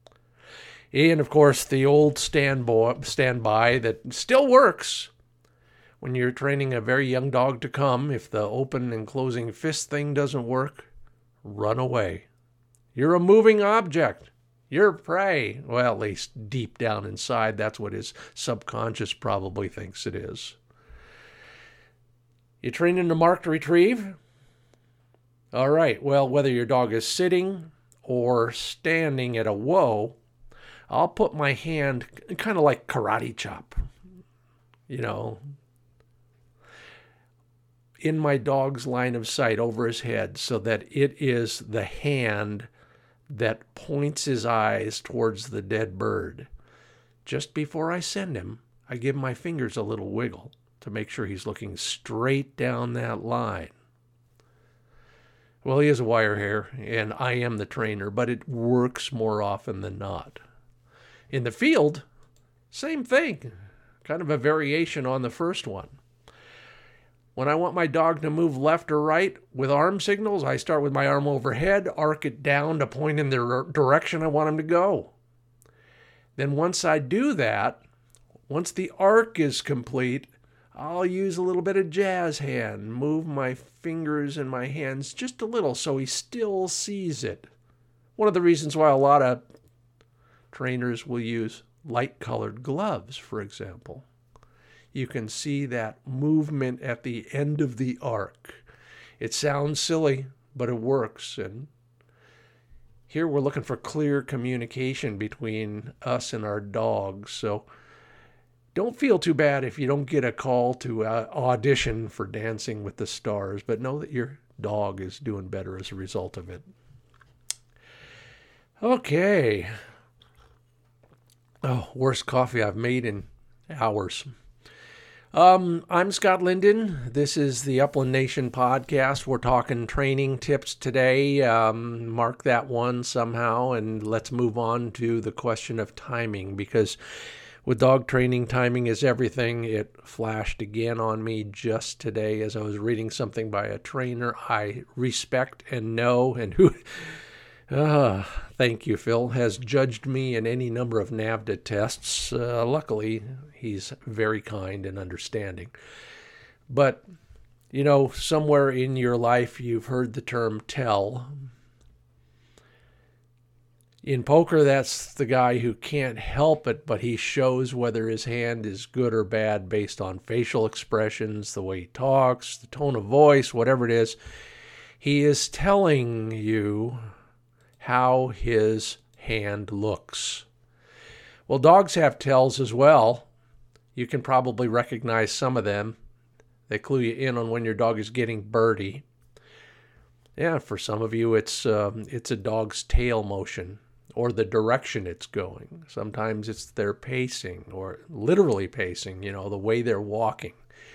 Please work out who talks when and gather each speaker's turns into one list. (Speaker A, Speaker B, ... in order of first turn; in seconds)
Speaker A: 0.9-5.1, 6.0-10.9, 11.4-12.3, 12.9-20.6, 22.6-24.2, 25.5-30.2, 30.9-33.8, 34.9-35.4, 38.0-42.7, 43.3-46.5, 47.2-53.7, 55.6-60.4, 61.3-62.0, 62.7-63.5, 64.0-66.0, 67.3-75.1, 76.3-77.8, 78.5-87.5, 88.2-89.5, 90.5-94.0, 94.9-98.6, 99.2-101.7, 103.1-107.6, 108.7-116.7, 118.8-119.7, 121.6-124.3, 125.3-137.0, 137.6-147.1, 147.7-155.7, 156.7-157.0, 157.7-161.3, 164.0-174.2, 175.0-177.0, 177.8-180.4, 181.5-183.3, 183.9-186.0, 186.7-189.0, 190.3-200.6